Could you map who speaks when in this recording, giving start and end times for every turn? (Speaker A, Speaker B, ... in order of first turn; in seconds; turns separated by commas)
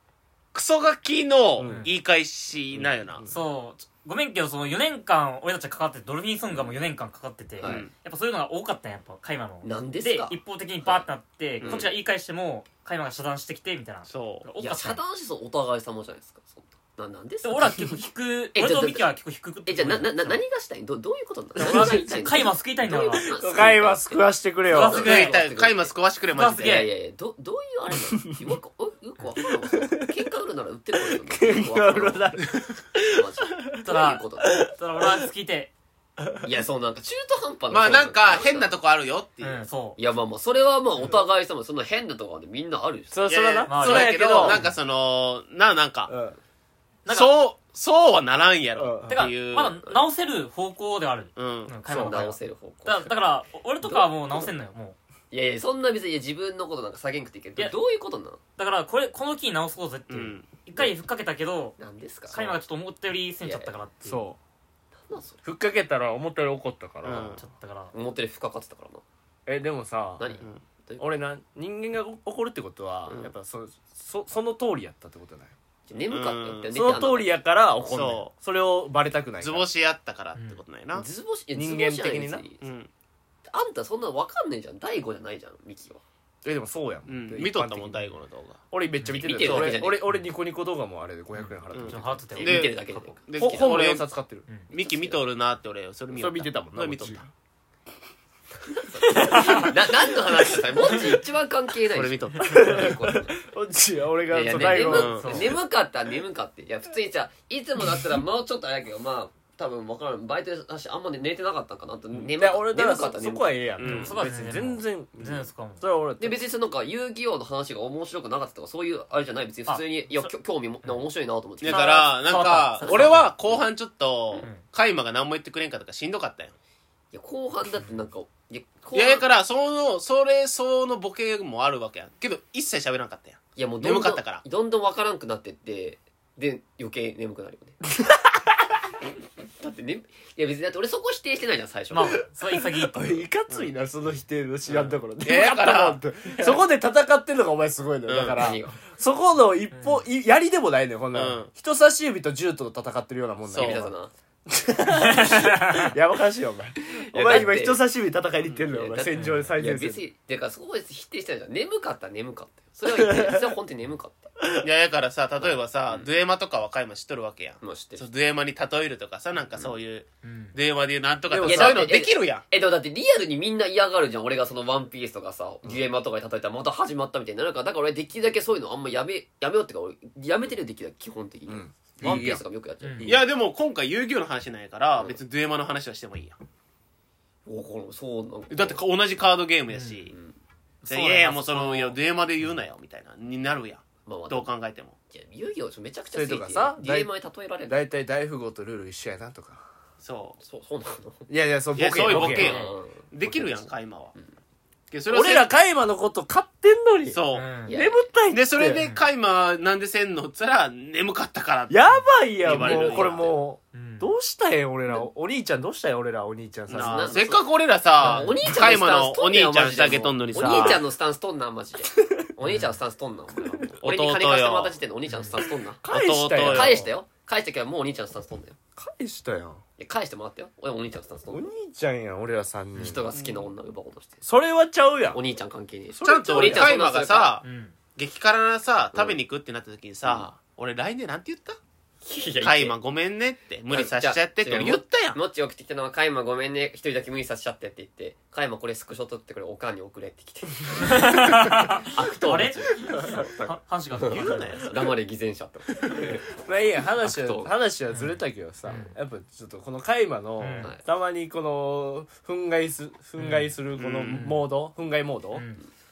Speaker A: 0.5-3.2, Speaker B: 1.6-1.9, Speaker C: 1.7-1.9, Speaker B: 2.7-3.4, Speaker C: 3.3-15.0, Speaker D: 7.6-7.9, Speaker A: 7.6-7.9, Speaker D: 9.6-11.0, Speaker A: 11.6-11.9, Speaker A: 14.1-14.5, Speaker D: 14.6-17.9, Speaker C: 17.4-20.4, Speaker D: 18.5-19.1, Speaker D: 19.6-25.9, Speaker C: 21.6-23.3, Speaker B: 21.6-22.0, Speaker B: 23.3-25.0, Speaker C: 24.7-25.4, Speaker A: 24.9-26.9, Speaker C: 26.3-26.9, Speaker D: 26.6-32.4, Speaker B: 31.0-33.9, Speaker D: 33.0-34.6, Speaker C: 33.8-35.7, Speaker B: 34.6-35.2, Speaker D: 36.4-38.8, Speaker A: 37.7-39.7, Speaker C: 39.4-40.0, Speaker D: 40.0-43.2, Speaker B: 43.1-44.6, Speaker A: 43.3-46.1, Speaker C: 43.7-44.8, Speaker B: 46.1-46.4, Speaker C: 47.1-47.4, Speaker A: 47.1-49.8, Speaker B: 48.8-49.2, Speaker C: 49.1-55.0, Speaker A: 51.4-51.7, Speaker B: 51.9-52.2, Speaker D: 51.9-53.1, Speaker D: 53.8-54.5, Speaker D: 55.3-58.4, Speaker C: 58.6-64.2, Speaker A: 60.1-60.5, Speaker D: 61.8-62.6, Speaker D: 63.4-63.7, Speaker B: 64.0-64.4, Speaker D: 65.0-65.4, Speaker B: 65.4-67.4, Speaker A: 67.0-67.4, Speaker C: 67.4-67.9, Speaker D: 67.9-69.0, Speaker B: 69.5-70.3, Speaker D: 70.2-71.0, Speaker B: 71.0-75.5, Speaker D: 75.9-78.0, Speaker A: 76.1-76.9, Speaker B: 76.7-79.7, Speaker A: 77.9-78.3, Speaker A: 79.4-81.1, Speaker C: 80.3-80.6, Speaker D: 80.9-82.6, Speaker B: 81.5-82.5, Speaker A: 82.6-82.9, Speaker D: 83.5-86.0, Speaker B: 86.4-88.0, Speaker A: 87.1-88.6, Speaker B: 88.7-92.3, Speaker C: 89.0-90.3, Speaker D: 89.1-90.0, Speaker C: 91.3-92.7, Speaker A: 91.7-94.1, Speaker D: 92.3-93.8, Speaker B: 93.4-94.5, Speaker D: 94.7-95.2, Speaker A: 94.7-97.2, Speaker B: 96.1-97.3, Speaker D: 98.9-103.4, Speaker C: 99.0-99.8, Speaker A: 101.9-102.9, Speaker B: 102.4-105.5, Speaker D: 104.3-113.6, Speaker A: 104.5-105.5, Speaker B: 112.2-116.4, Speaker A: 113.8-114.2, Speaker C: 113.8-115.8, Speaker D: 116.2-122.0, Speaker C: 119.7-120.3, Speaker A: 121.6-126.5, Speaker C: 121.6-123.3, Speaker D: 122.8-123.1, Speaker D: 127.1-129.3, Speaker A: 128.9-134.4, Speaker D: 133.6-137.8, Speaker B: 138.0-138.7, Speaker D: 139.6-142.2, Speaker C: 141.9-143.2, Speaker B: 142.0-153.9, Speaker A: 144.7-146.5, Speaker A: 148.1-148.5, Speaker D: 148.3-148.8, Speaker C: 149.7-150.0, Speaker A: 151.1-151.5, Speaker D: 153.5-154.1, Speaker A: 153.5-153.8, Speaker B: 154.5-160.0, Speaker C: 154.9-155.9, Speaker D: 156.8-157.8, Speaker D: 158.7-164.3, Speaker C: 159.1-159.5, Speaker B: 162.8-163.5, Speaker A: 164.6-172.4, Speaker D: 165.4-166.1, Speaker D: 167.6-168.1, Speaker C: 170.2-170.6, Speaker B: 171.3-171.9, Speaker D: 171.4-183.1, Speaker B: 181.5-182.4, Speaker C: 182.8-183.1, Speaker B: 183.0-183.2, Speaker A: 183.1-186.4, Speaker D: 187.5-188.8, Speaker A: 188.5-190.1, Speaker C: 189.7-190.0, Speaker D: 190.1-190.4, Speaker B: 190.9-191.9, Speaker A: 190.9-194.9, Speaker C: 191.3-191.8, Speaker D: 194.1-194.5, Speaker D: 195.1-197.8, Speaker B: 196.1-197.1, Speaker B: 197.7-199.6, Speaker A: 200.0-200.4, Speaker D: 200.4-201.3, Speaker B: 201.3-202.6, Speaker A: 201.8-204.1, Speaker C: 202.0-202.7, Speaker D: 202.2-204.3, Speaker A: 204.9-205.5, Speaker B: 205.1-208.8, Speaker A: 207.1-207.5, Speaker C: 207.3-207.7, Speaker D: 207.7-208.1, Speaker A: 208.3-211.8, Speaker C: 208.8-209.1, Speaker B: 211.7-217.1, Speaker A: 212.4-213.3, Speaker D: 212.5-213.4, Speaker C: 213.7-214.1, Speaker A: 216.7-220.8, Speaker D: 216.8-217.5, Speaker D: 218.0-225.8, Speaker C: 218.0-218.4, Speaker C: 222.4-222.7, Speaker B: 223.4-223.8, Speaker A: 223.8-224.8, Speaker B: 225.8-226.9, Speaker A: 225.9-226.8, Speaker D: 226.4-228.6, Speaker B: 228.8-229.6, Speaker D: 229.8-231.5, Speaker B: 231.3-233.1, Speaker D: 232.8-234.2, Speaker A: 233.2-233.5, Speaker B: 234.2-235.2, Speaker D: 235.1-237.3, Speaker B: 235.9-236.8, Speaker A: 236.0-241.6, Speaker C: 237.4-237.8, Speaker D: 238.9-239.2, Speaker D: 242.0-242.8, Speaker A: 242.4-245.2, Speaker D: 243.7-256.3, Speaker C: 250.8-254.7, Speaker B: 255.8-265.4, Speaker D: 257.0-257.5, Speaker C: 257.9-258.9, Speaker C: 260.4-260.7, Speaker C: 263.2-263.6, Speaker A: 263.8-264.2, Speaker C: 264.1-264.5, Speaker C: 265.3-265.6